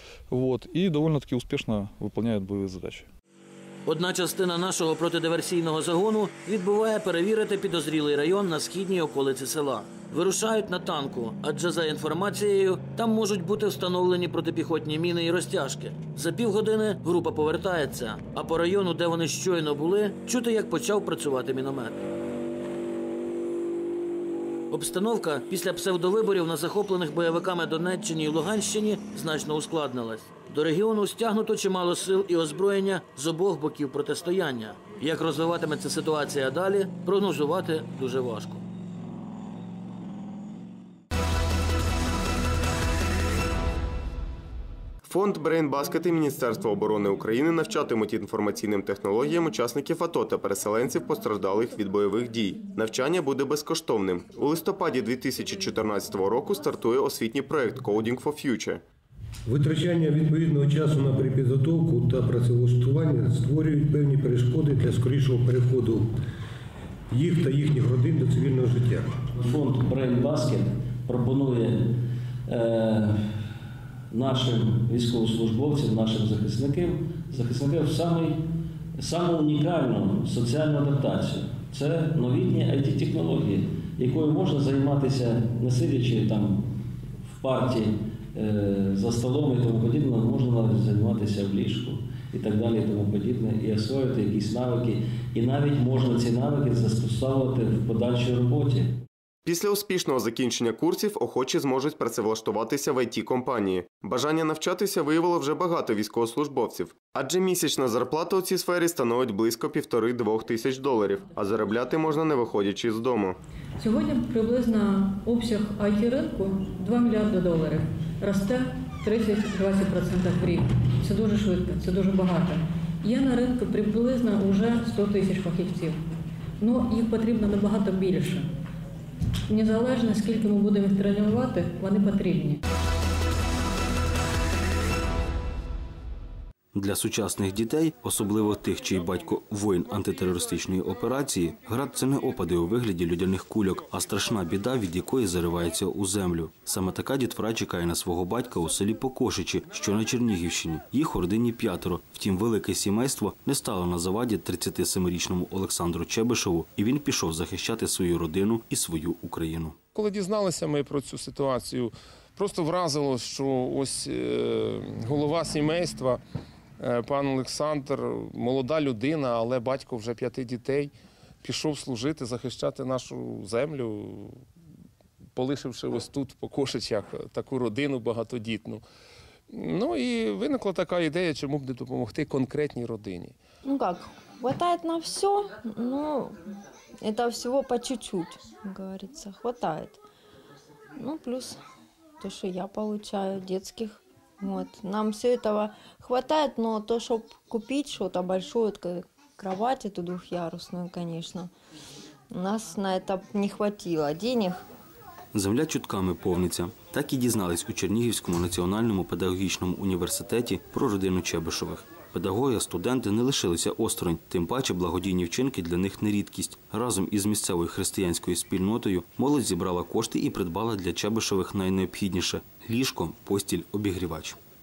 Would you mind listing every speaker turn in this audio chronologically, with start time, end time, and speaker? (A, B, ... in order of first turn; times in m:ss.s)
0:00.3-0:03.1 A
0:03.9-0:22.0 B
0:24.7-0:38.6 B
0:45.0-0:58.8 C
0:59.5-1:06.1 D
1:07.1-1:09.2 D
1:09.4-1:11.9 E
1:12.5-1:13.2 E
1:14.1-1:18.4 E
1:19.0-1:26.6 E
1:27.3-1:38.9 E
1:39.4-1:53.4 C
1:53.8-2:06.0 F
2:06.6-2:08.5 F
2:09.5-2:12.6 F
2:16.8-2:39.8 G
2:40.0-2:46.2 H
2:46.8-2:50.9 H
2:51.4-2:54.4 H
2:55.4-2:58.8 H
2:59.5-3:03.3 H
3:03.6-3:06.4 I
3:07.0-3:10.0 I
3:11.0-3:11.6 I
3:12.2-3:21.5 I
3:22.3-3:24.6 I
3:25.3-3:44.4 G